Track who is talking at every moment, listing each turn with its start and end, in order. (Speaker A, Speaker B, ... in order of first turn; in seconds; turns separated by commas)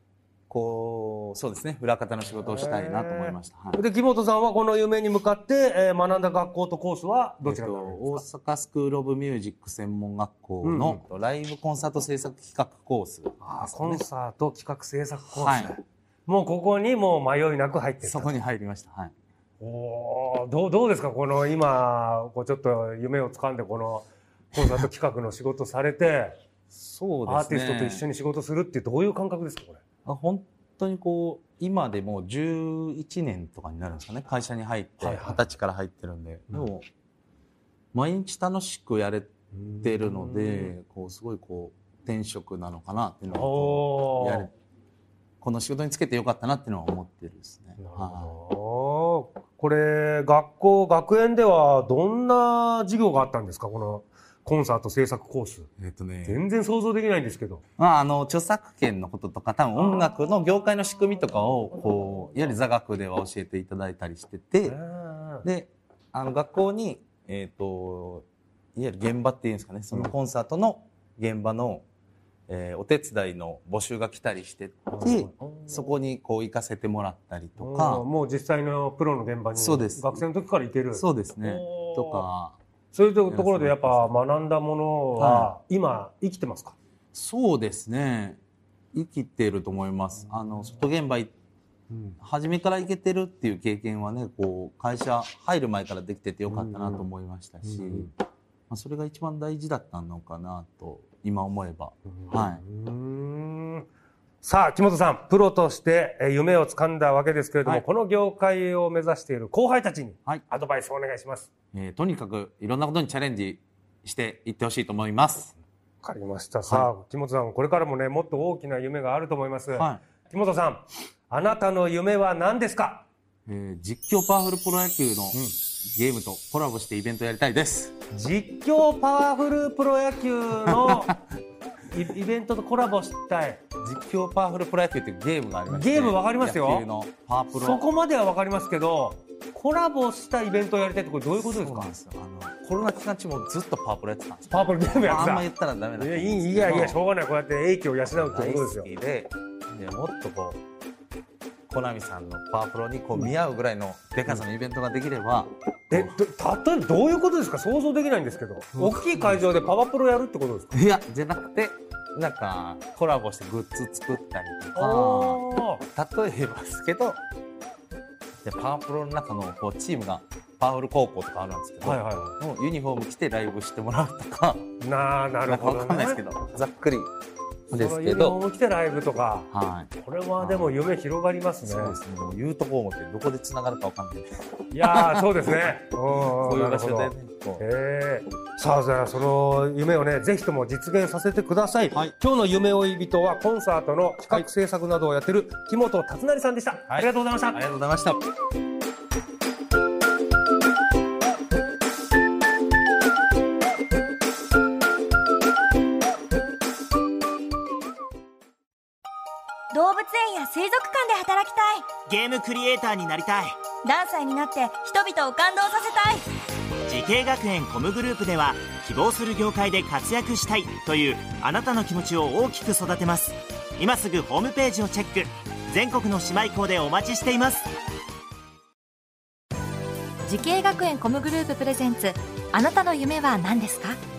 Speaker A: 0.5-3.8, Speaker B: 2.3-8.2, Speaker A: 7.4-14.1, Speaker B: 10.6-11.0, Speaker B: 13.4-18.3, Speaker A: 15.3-15.8, Speaker A: 18.0-19.1, Speaker B: 19.6-26.4, Speaker A: 26.7-28.1, Speaker B: 27.2-29.8, Speaker A: 30.1-36.9, Speaker B: 35.0-35.4, Speaker A: 37.9-44.5, Speaker B: 39.5-40.7, Speaker B: 43.3-44.5, Speaker A: 45.4-48.4, Speaker B: 47.8-55.7, Speaker A: 55.8-56.4, Speaker B: 56.3-57.6, Speaker A: 57.8-64.8, Speaker B: 64.7-65.5, Speaker A: 65.4-71.8, Speaker A: 72.5-78.0, Speaker B: 74.9-76.0, Speaker B: 77.6-82.3, Speaker A: 79.5-80.3, Speaker A: 80.9-82.6, Speaker B: 82.9-86.8, Speaker A: 83.3-84.1, Speaker A: 85.2-85.5, Speaker A: 87.1-88.4, Speaker A: 88.9-91.3, Speaker B: 91.9-92.2, Speaker A: 92.2-98.1, Speaker B: 96.5-97.1, Speaker B: 97.6-98.1, Speaker A: 98.7-102.6, Speaker B: 102.1-103.9, Speaker B: 104.4-111.5, Speaker A: 111.7-115.6, Speaker B: 116.0-123.1, Speaker A: 119.7-120.0, Speaker A: 123.5-128.0, Speaker B: 128.1-131.2, Speaker A: 130.7-131.2, Speaker B: 131.9-133.6, Speaker A: 133.8-137.9, Speaker B: 135.7-136.9, Speaker B: 137.5-141.9, Speaker A: 141.4-147.0, Speaker B: 144.5-148.9, Speaker A: 148.1-150.6, Speaker A: 151.7-156.2, Speaker B: 155.9-160.8, Speaker A: 158.8-159.7, Speaker A: 160.7-167.2, Speaker B: 164.8-165.8, Speaker A: 168.4-174.7, Speaker B: 171.8-172.3, Speaker B: 174.8-176.2, Speaker A: 175.4-177.1, Speaker A: 177.7-178.4, Speaker B: 177.7-182.0, Speaker A: 179.5-180.8, Speaker A: 181.6-187.7, Speaker B: 184.7-197.6, Speaker A: 196.9-198.2, Speaker C: 209.7-212.0, Speaker D: 212.1-213.6, Speaker C: 213.8-216.3, Speaker D: 216.9-227.6, Speaker E: 230.2-234.0